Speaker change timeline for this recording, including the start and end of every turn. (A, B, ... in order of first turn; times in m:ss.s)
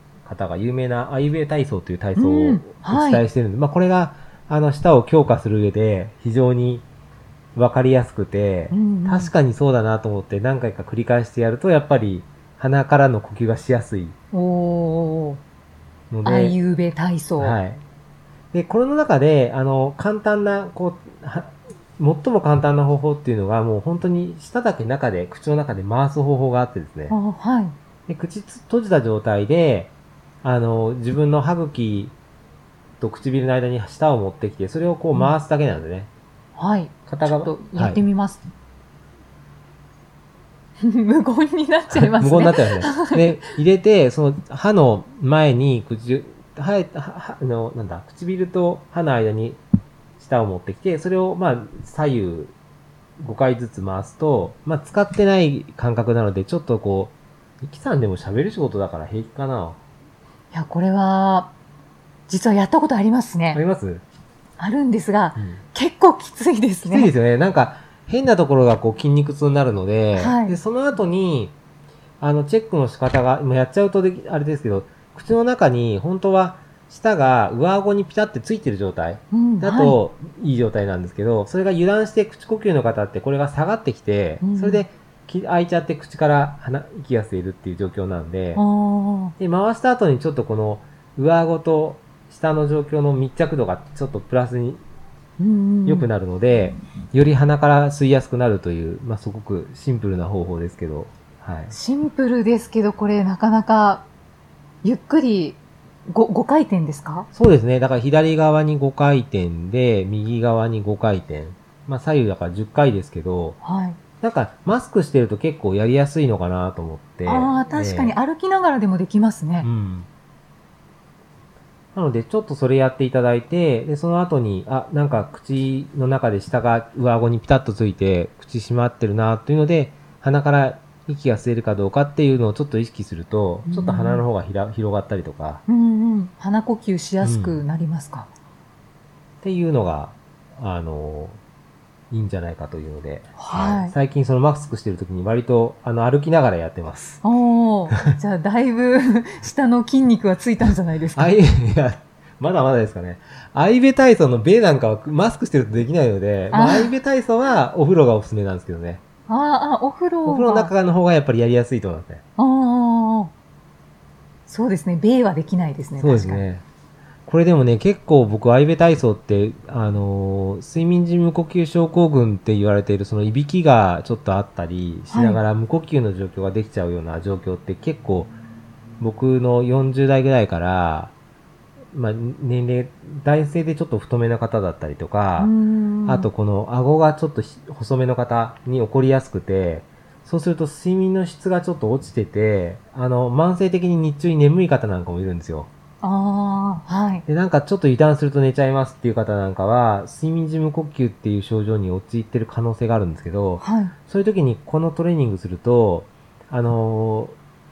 0:00.2-0:06.9 A
0:02.2-0:03.2 B
0:07.5-0:14.2 A
0:08.7-0:09.3 B
0:14.3-0:15.4 B
0:16.1-0:16.6 A
0:16.2-0:17.6 B
0:17.4-0:17.8 A
0:18.5-0:27.2 A
0:27.1-0:27.8 B
0:28.1-0:32.1 A
0:33.0-0:36.1 A
0:36.6-0:38.4 B
0:37.1-0:38.0 A
0:40.8-0:43.3 B
0:41.9-0:49.6 A
0:50.2-0:52.5 A
0:53.2-0:59.8 A
1:00.5-1:01.5 B
1:02.3-1:03.6 B
1:03.5-1:04.0 A
1:04.6-1:07.1 B
1:05.4-1:05.6 A
1:06.8-1:11.6 A
1:10.1-1:10.6 B
1:12.2-1:28.6 A
1:19.3-1:20.0 B
1:24.4-1:24.8 B
1:28.5-1:29.3 B
1:29.4-1:34.8 A
1:35.4-1:36.1 B
1:35.8-1:41.8 A
1:41.7-1:44.1 B
1:44.8-1:47.3 B
1:47.3-1:53.6 A
1:53.6-1:54.0 B
1:54.2-1:58.2 A
1:57.2-1:59.7 B
1:59.6-2:00.1 A
2:01.9-2:15.6 A
2:13.7-2:14.2 B
2:15.7-2:18.3 B
2:17.2-2:17.6 A
2:19.4-2:21.4 A
2:22.1-2:27.2 A
2:23.4-2:23.9 B
2:27.2-2:31.3 B
2:31.1-2:39.0 A
2:36.5-2:37.0 B
2:39.3-2:40.7 B
2:40.2-2:42.2 A
2:42.4-2:43.3 B
2:44.5-2:46.4 B
2:46.0-2:46.6 A
2:47.2-2:58.3 A
2:55.1-2:55.4 B
2:59.0-3:01.1 A
3:01.9-3:05.5 A
3:05.4-3:06.3 B
3:06.0-3:15.7 A
3:16.0-3:17.2 B
3:17.3-3:27.4 A
3:23.6-3:23.9 B